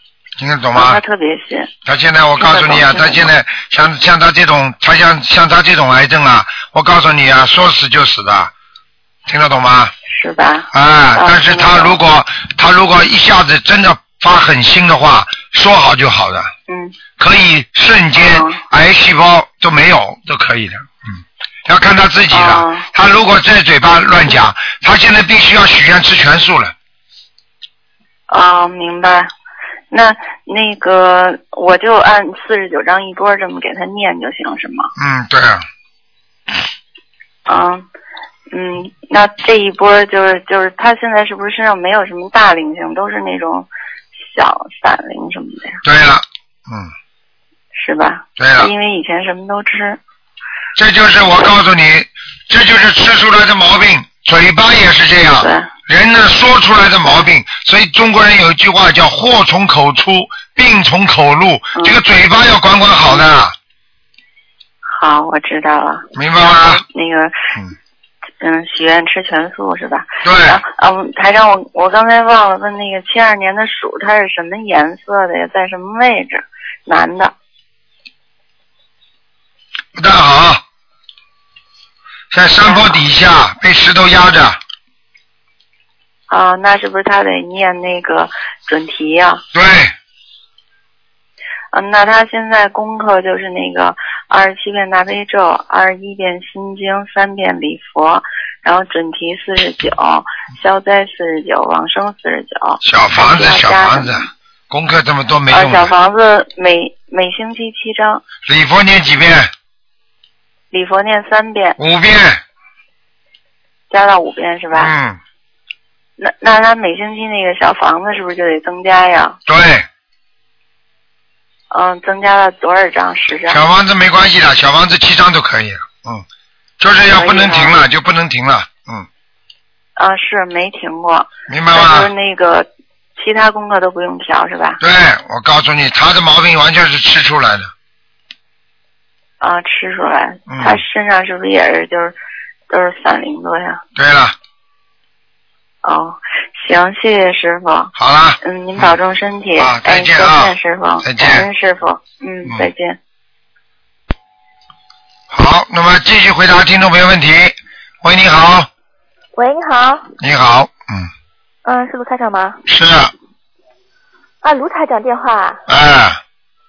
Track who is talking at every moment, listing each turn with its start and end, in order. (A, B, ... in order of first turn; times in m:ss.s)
0:00.4-0:01.0 A
0:00.7-0:01.7 B
0:01.8-0:08.5 A
0:02.4-0:03.3 B
0:09.3-0:09.9 A
0:10.1-0:12.0 B
0:10.7-0:16.5 A
0:16.7-0:16.9 B
0:17.2-0:26.7 A
0:18.2-0:18.6 B
0:22.3-0:22.9 B
0:28.3-0:29.3 B
0:29.9-0:34.9 B
0:35.0-0:35.6 A
0:37.5-0:37.8 B
0:38.5-0:45.8 B
0:45.8-0:46.9 A
0:47.7-0:50.0 B
0:48.4-0:48.7 A
0:50.8-1:03.5 A
0:55.4-0:55.7 B
1:04.8-1:07.4 B
1:06.2-1:06.8 A
1:08.4-1:17.3 B
1:10.2-1:10.6 A
1:20.0-1:20.6 A
1:22.3-1:24.6 A
1:22.6-1:23.0 B
1:26.3-1:29.4 B
1:29.5-1:29.9 A
1:31.7-1:44.2 B
1:42.8-1:45.9 A
1:45.5-1:48.2 B
1:48.4-1:49.5 A
1:50.7-1:51.8 B
1:51.8-1:52.4 A
1:53.9-1:54.9 B
1:54.7-1:55.2 A
1:56.2-1:59.4 B
1:59.5-1:59.9 A
2:01.7-2:03.6 B
2:03.5-2:06.2 A
2:06.8-2:09.1 A
2:07.1-2:07.8 B
2:10.0-2:14.8 B
2:11.5-2:12.1 A
2:14.8-2:17.7 A
2:19.4-2:22.1 B
2:20.5-2:20.8 A
2:22.7-2:23.8 B
2:24.0-2:24.3 A
2:25.8-2:27.9 B
2:28.0-2:29.0 A
2:28.4-2:33.0 B
2:29.6-2:31.5 A
2:35.3-2:38.7 A
2:39.4-2:40.1 C
2:40.2-2:41.1 A
2:41.6-2:42.6 C
2:42.7-2:43.1 A
2:44.4-2:45.6 C
2:45.7-2:46.2 A